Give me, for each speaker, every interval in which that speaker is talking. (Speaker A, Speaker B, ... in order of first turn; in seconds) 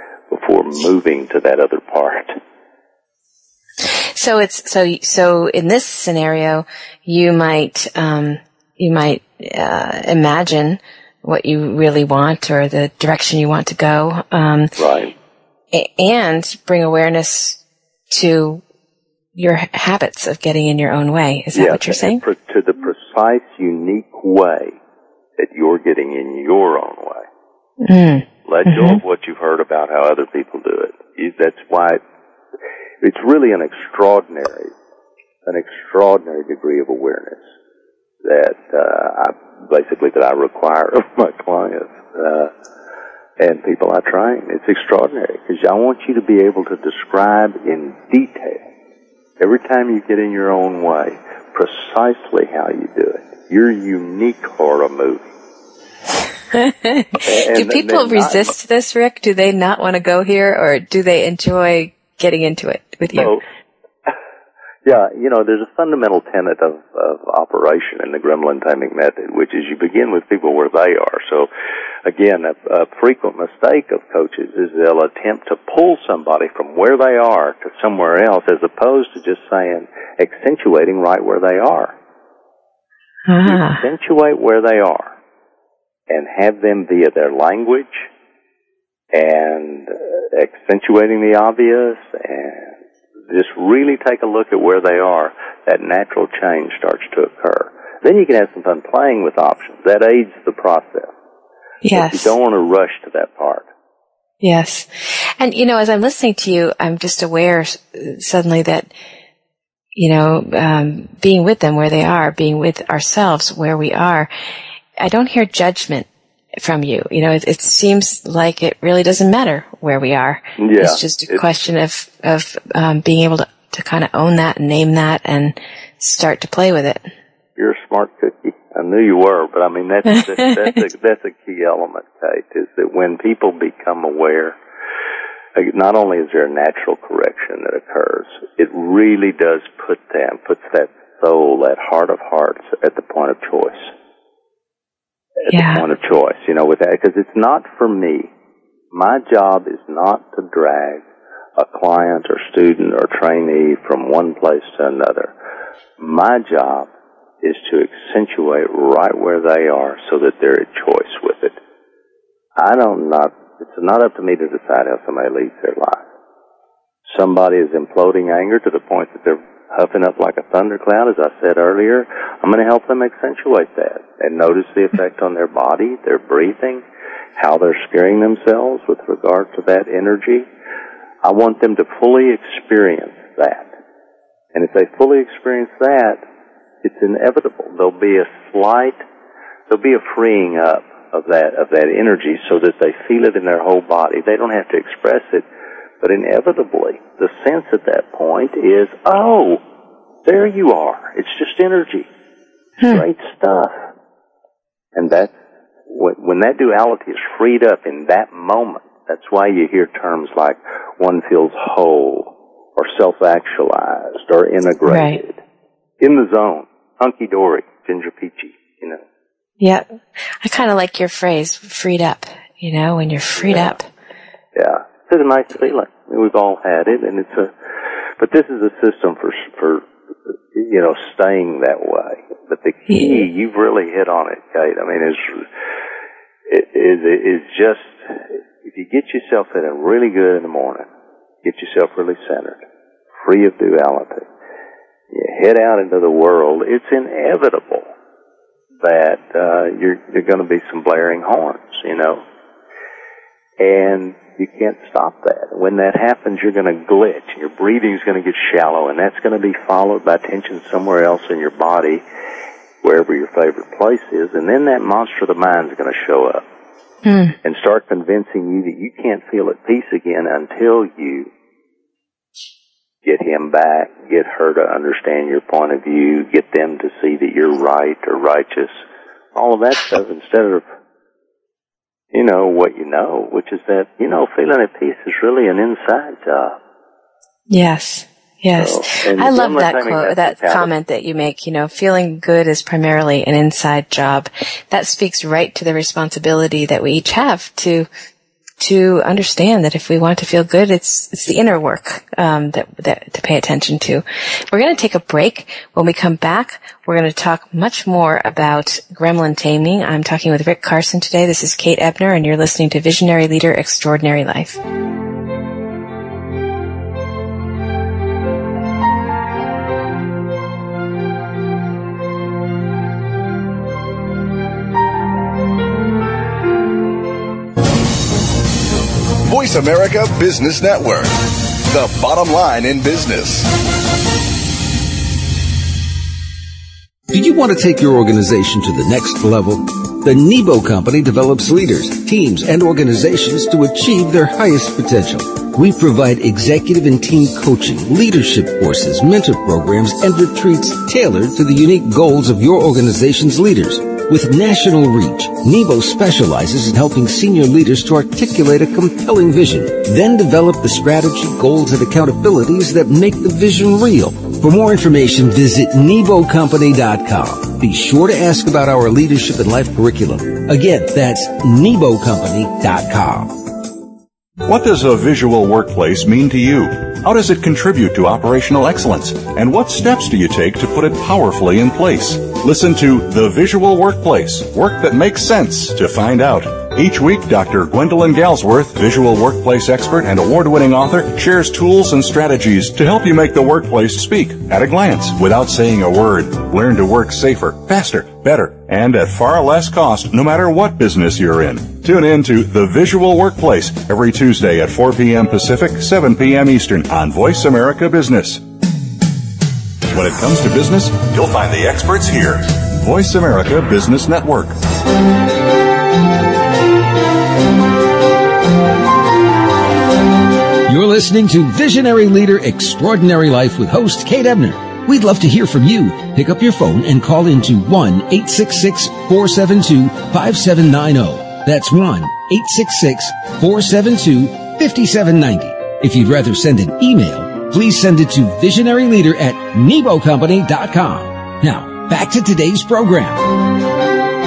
Speaker A: 0.3-2.4, 14.8-15.1, 21.6-24.8, 25.4-27.2, 28.5-32.0, 33.0-34.7, 35.5-37.4, 38.2-42.5, 43.4-48.6, 49.4-55.3, 57.2-58.5, 63.1-63.4, 64.8-71.5, 72.0-81.9, 83.5-85.1, 86.1-88.1, 89.1-92.7, 93.3-101.1, 101.9-103.7, 120.6-121.4, 127.6-134.6, 135.6-143.9, 145.5-148.3, 148.9-151.0, 151.6-155.3, 156.0-156.9, 157.4-161.6, 162.6-166.0, 167.1-176.8, 177.4-180.5, 181.2-183.7, 184.5-186.2, 186.8-189.0, 189.7-195.5, 196.0-199.6, 200.2-202.1, 202.9-203.8, 204.9-205.3, 205.9-215.4, 216.0-219.0, 223.4-223.8, 224.6-227.5, 228.2-229.9, 230.5-235.5, 236.5-240.9, 241.4-242.6, 243.2-244.3, 245.1-247.9, 248.8-252.2, 253.6-262.0, 262.8-266.4, 267.4-271.3, 273.1-278.8, 279.4-280.6, 282.1-286.6, 288.6-290.7
Speaker B: 3.9-14.7, 15.7-17.6, 18.1-18.6, 19.4-22.2, 27.8-29.0, 56.5-63.4, 83.3-83.8, 101.8-102.3, 104.4-108.9, 110.0-114.3, 115.0-127.1, 145.5-145.8, 214.9-215.2, 219.6-219.9, 220.4-223.9, 232.9-233.2, 267.1-267.4, 287.5-297.9, 298.6-314.6
Speaker C: 329.3-331.2, 331.7-333.5
Speaker D: 337.1-373.4, 420.7-443.3
Speaker E: 374.4-408.4, 409.9-414.6